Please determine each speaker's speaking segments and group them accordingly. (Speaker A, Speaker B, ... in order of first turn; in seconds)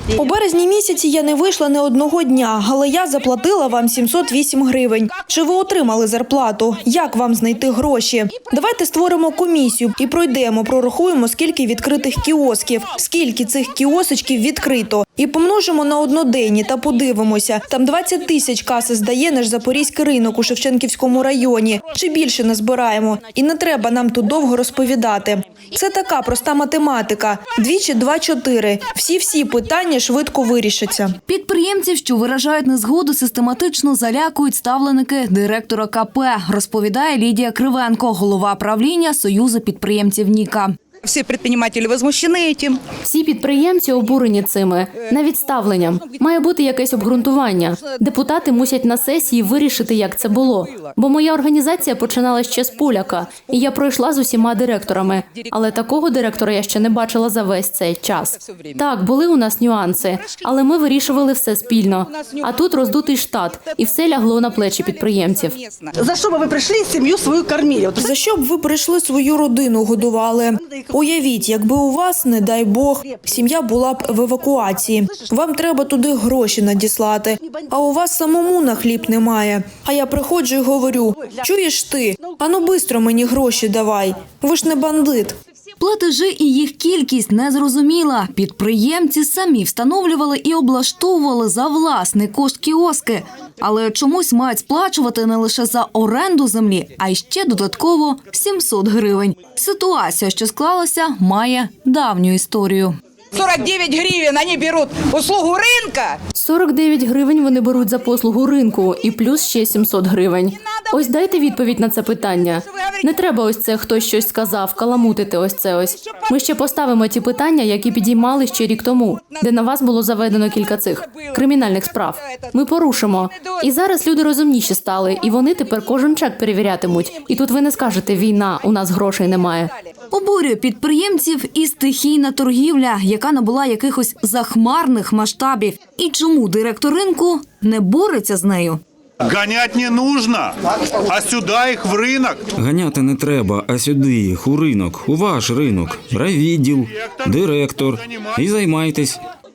Speaker A: 0.1-31.1, 68.0-85.4
Speaker B: 31.2-40.7, 85.8-102.9, 130.1-138.8
Speaker C: 41.0-42.8, 65.6-65.9, 103.3-106.2
Speaker D: 43.0-65.6, 106.3-129.7
Speaker E: 66.0-68.0
Speaker F: 139.2-142.5
Speaker G: 142.5-149.2